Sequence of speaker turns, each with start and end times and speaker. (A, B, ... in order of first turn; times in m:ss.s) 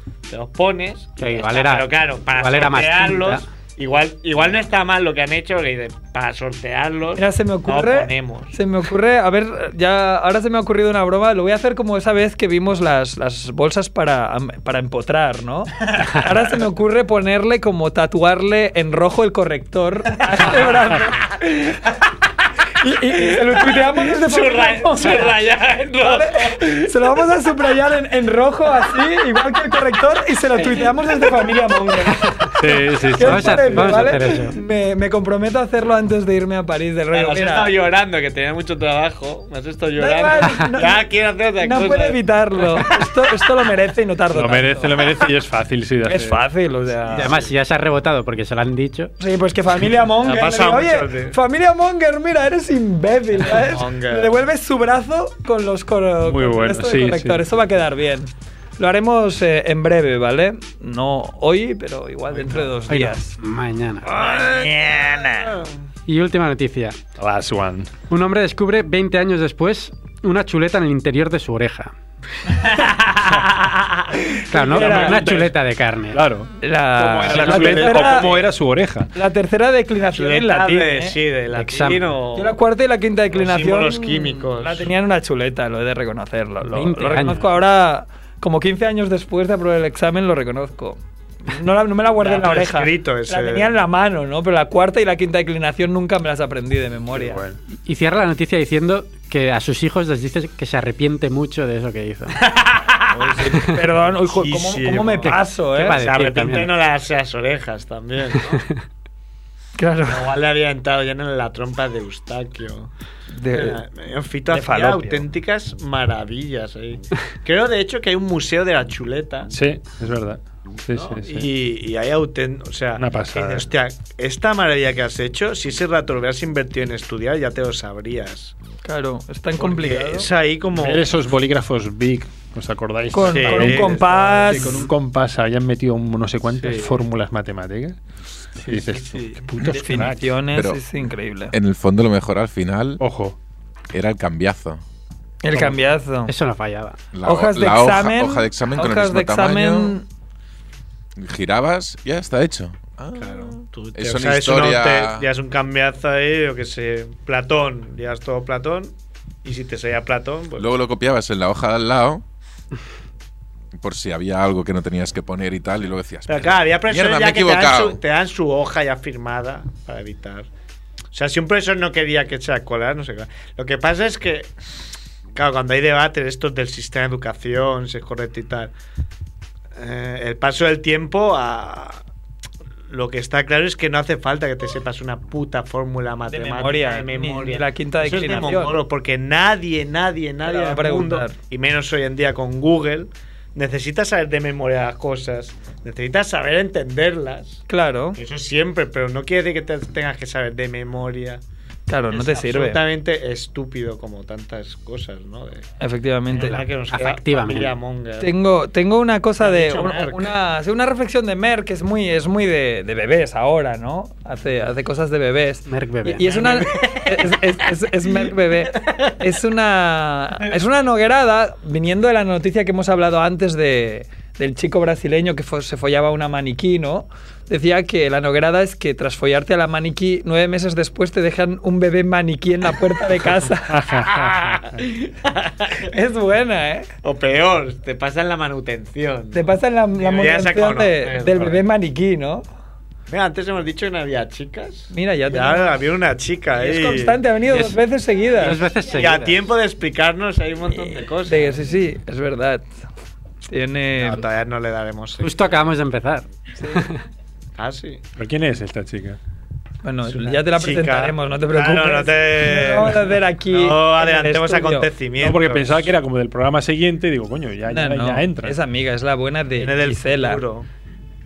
0:00.3-0:08.6 A
0:01.2-0:03.5 B
0:07.2-0:21.8 C
0:20.4-0:20.9 A
0:22.8-0:25.4 C
0:23.0-0:26.9 A
0:26.0-0:32.3 C
0:31.7-0:32.4 A
0:32.6-0:34.1 D
0:33.2-0:34.6 B
0:33.2-0:37.7 C
0:37.1-0:43.1 A
0:40.0-0:45.0 C
0:44.3-0:46.4 D
0:46.0-0:47.5 C
0:47.1-0:49.1 B
0:49.2-1:03.4 C
0:50.2-0:51.4 A
0:53.4-0:54.5 A
0:56.2-0:57.4 D
1:02.3-1:02.7 A
1:02.9-1:04.1 B
1:04.0-1:05.7 A
1:04.2-1:05.5 C
1:06.1-1:07.0 B
1:07.2-1:07.9 D
1:08.1-1:11.9 B
1:12.4-1:15.0 A
1:14.5-1:16.2 B
1:14.5-1:15.3 C
1:14.8-1:15.5 D
1:16.1-1:19.1 D
1:16.6-1:18.4 C
1:17.2-1:18.4 A
1:19.1-1:21.2 C
1:20.1-1:22.6 A
1:21.5-1:22.0 B
1:22.4-1:37.4 C
1:23.3-1:24.9 A
1:26.6-1:27.5 B
1:32.2-1:33.7 A
1:37.1-1:37.6 D
1:37.8-1:42.4 B
1:42.4-1:45.4 A
1:43.6-1:46.0 C
1:45.3-1:46.7 B
1:46.0-1:48.6 A
1:49.8-1:50.3 C
1:50.1-1:52.9 A
1:53.3-1:53.8 C
1:53.5-1:59.5 A
1:54.5-1:55.2 C
1:59.5-2:01.5 D
2:00.9-2:08.5 A
2:03.0-2:03.7 D
2:08.8-2:10.3 C
2:09.6-2:11.1 A
2:10.7-2:18.0 D
2:13.1-2:14.8 C
2:13.2-2:14.8 A
2:16.6-2:16.9 A
2:18.6-2:20.4 D
2:18.6-2:19.5 A
2:19.6-2:20.8 E
2:19.6-2:21.5 C
2:21.5-2:23.0 E
2:23.0-2:23.4 D
2:23.9-2:24.8 E
2:25.4-2:26.3 C
2:26.3-2:27.0 B
2:27.1-2:30.0 E
2:27.2-2:30.0 C
2:31.2-2:35.3 E
2:33.2-2:40.7 A
2:40.6-2:42.2 E
2:43.8-2:48.0 E
2:46.3-2:50.5 A
2:51.1-2:54.5 A
2:55.3-2:58.7 A
2:59.8-3:02.0 A
3:02.9-3:17.6 A
3:06.3-3:08.8 C
3:10.4-3:11.3 C
3:17.7-3:18.2 C
3:18.1-3:21.4 A
3:21.9-3:22.8 C
3:22.1-3:25.6 A
3:25.8-3:26.6 C
3:26.3-3:28.3 A
3:26.4-3:27.8 B
3:28.2-3:53.9 C
3:29.4-3:30.3 A
3:35.7-3:36.3 B
3:36.2-3:37.6 A
3:38.8-3:39.1 A
3:53.7-3:54.6 D
3:54.0-3:55.9 A
3:55.9-3:56.9 C
3:57.0-4:01.6 A
3:59.3-4:02.4 C
4:03.1-4:07.8 A
4:04.9-4:05.8 C
4:06.5-4:08.6 C
4:08.4-4:09.4 B
4:08.4-4:11.6 A
4:10.8-4:12.6 C
4:13.5-4:14.2 C
4:13.9-4:15.4 A
4:15.2-4:17.0 B
4:16.6-4:16.8 C
4:17.6-4:18.0 A
4:18.2-4:19.2 D
4:19.8-4:24.9 C
4:20.1-4:25.9 A
4:25.2-4:28.6 D
4:27.7-4:30.4 C
4:29.6-4:30.7 A